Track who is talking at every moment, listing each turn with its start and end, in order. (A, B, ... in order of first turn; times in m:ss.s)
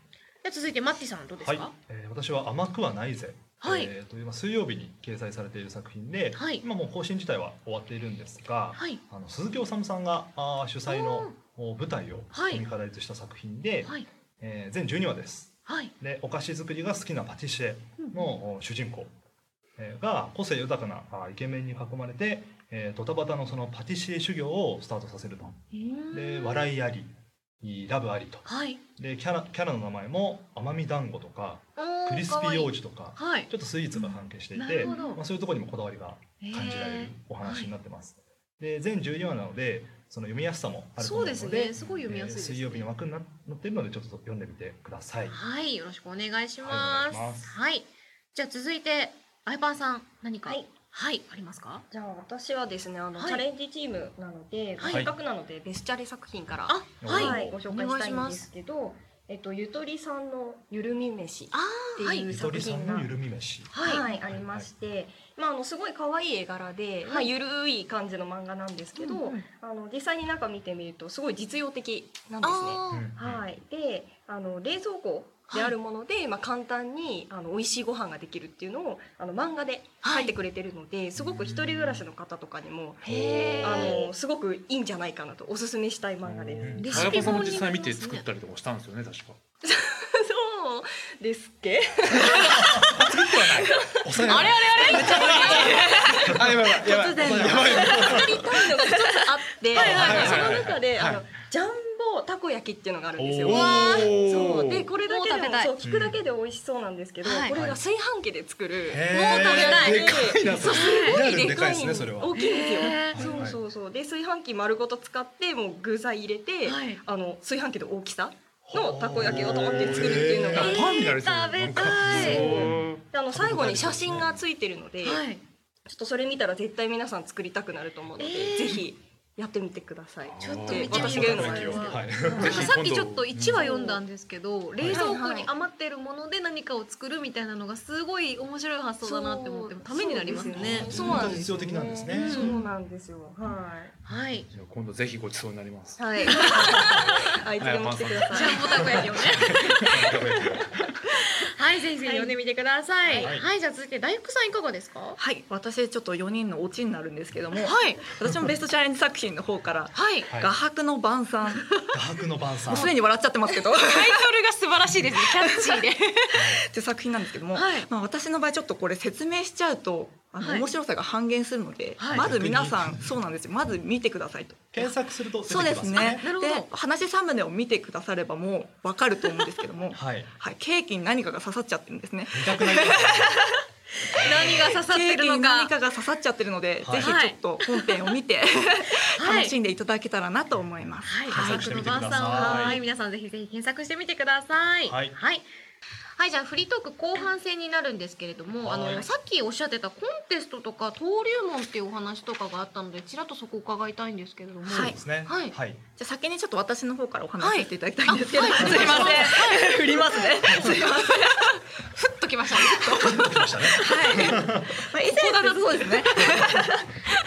0:00.4-0:01.7 A
0:01.4-0:19.1 B
0:03.6-0:03.9 A
0:06.3-0:06.6 A
0:08.8-0:09.0 A
0:10.9-0:11.3 A
0:12.3-0:12.6 A
0:15.7-0:15.9 A
0:18.0-0:18.3 A
0:19.8-0:25.6 B
0:25.7-0:26.7 A
0:26.1-0:45.4 B
0:28.4-0:28.8 A
0:31.8-0:35.2 A
0:34.8-0:35.1 C
0:36.4-0:37.7 A
0:41.0-0:42.9 A
0:45.3-0:51.8 A
0:46.6-0:47.6 B
0:51.9-1:03.1 C
0:53.2-0:53.4 A
0:54.8-0:55.1 A
0:56.7-0:58.5 A
0:57.0-0:57.6 B
1:01.5-1:02.3 A
1:02.2-1:04.7 B
1:03.7-1:04.1 A
1:03.8-1:27.4 C
1:07.0-1:07.3 A
1:09.0-1:09.4 A
1:12.4-1:13.1 A
1:12.9-1:13.5 B
1:20.0-1:20.3 A
1:21.2-1:22.0 B
1:23.0-1:24.1 A
1:23.0-1:24.1 D
1:26.3-1:29.4 D
1:26.3-1:27.1 B
1:26.8-1:28.2 A
1:29.6-2:01.1 C
1:32.3-1:33.9 D
1:32.3-1:35.4 B
1:34.2-1:38.3 A
1:34.8-1:38.4 D
1:36.2-1:36.5 B
1:37.1-1:38.3 B
1:39.7-1:40.6 A
1:39.7-1:41.2 D
1:39.7-1:40.8 B
1:43.2-1:44.1 B
1:43.4-1:44.9 D
1:43.5-1:44.4 A
1:45.0-1:45.7 A
1:45.8-1:46.2 B
1:47.2-1:47.6 A
1:47.5-1:47.8 B
1:48.9-1:53.6 B
1:49.1-1:51.3 A
1:49.4-1:50.9 D
1:52.3-1:53.5 A
1:56.6-1:57.0 A
1:58.6-2:00.8 B
1:59.2-2:03.0 D
2:00.5-2:02.6 A
2:01.8-2:05.2 C
2:01.9-2:04.4 B
2:05.0-2:05.4 A
2:05.9-2:12.7 C
2:08.2-2:08.9 A
2:10.3-2:13.7 D
2:10.4-2:21.4 A
2:10.8-2:12.7 B
2:13.6-2:14.0 C
2:14.8-2:15.1 B
2:14.9-2:15.5 C
2:19.0-2:23.9 C
2:20.5-2:22.6 B
2:22.1-2:22.7 A
2:24.1-2:24.5 A
2:24.5-2:30.9 D
2:26.0-2:29.0 C
2:26.2-2:27.2 A
2:28.3-2:30.2 A
2:29.5-2:30.4 B
2:31.1-2:35.2 A
2:32.0-2:32.4 C
2:33.1-2:33.4 C
2:33.2-2:33.5 B
2:35.2-2:41.8 E
2:37.6-2:38.0 A
2:39.9-2:40.3 A
2:40.3-2:40.5 B
2:41.9-2:42.9 B
2:42.6-2:44.2 E
2:42.7-2:42.9 A
2:43.7-2:46.6 A
2:45.1-2:45.9 E
2:46.3-2:46.6 B
2:46.4-2:54.9 E
2:47.5-2:47.9 A
2:50.4-2:50.7 A
2:52.0-2:52.3 A
2:52.1-2:53.1 B
2:54.7-2:56.2 B
2:55.4-3:03.5 E
2:56.0-2:56.7 A
2:59.9-3:00.3 B
3:02.3-3:03.4 B
3:04.0-3:05.7 A
3:04.1-3:04.8 B
3:04.2-3:11.8 E
3:06.8-3:07.2 B
3:07.0-3:08.0 A
3:09.2-3:09.5 A
3:11.0-3:15.4 A
3:11.3-3:12.8 B
3:12.4-3:12.7 E
3:14.8-3:15.2 B
3:16.2-3:25.6 A
3:18.6-3:19.1 B
3:24.7-3:25.0 E
3:24.7-3:25.8 B
3:26.0-3:31.6 E
3:27.4-3:36.7 A
3:28.6-3:29.2 B
3:30.5-3:30.7 B
3:32.6-3:36.8 E
3:32.9-3:34.7 B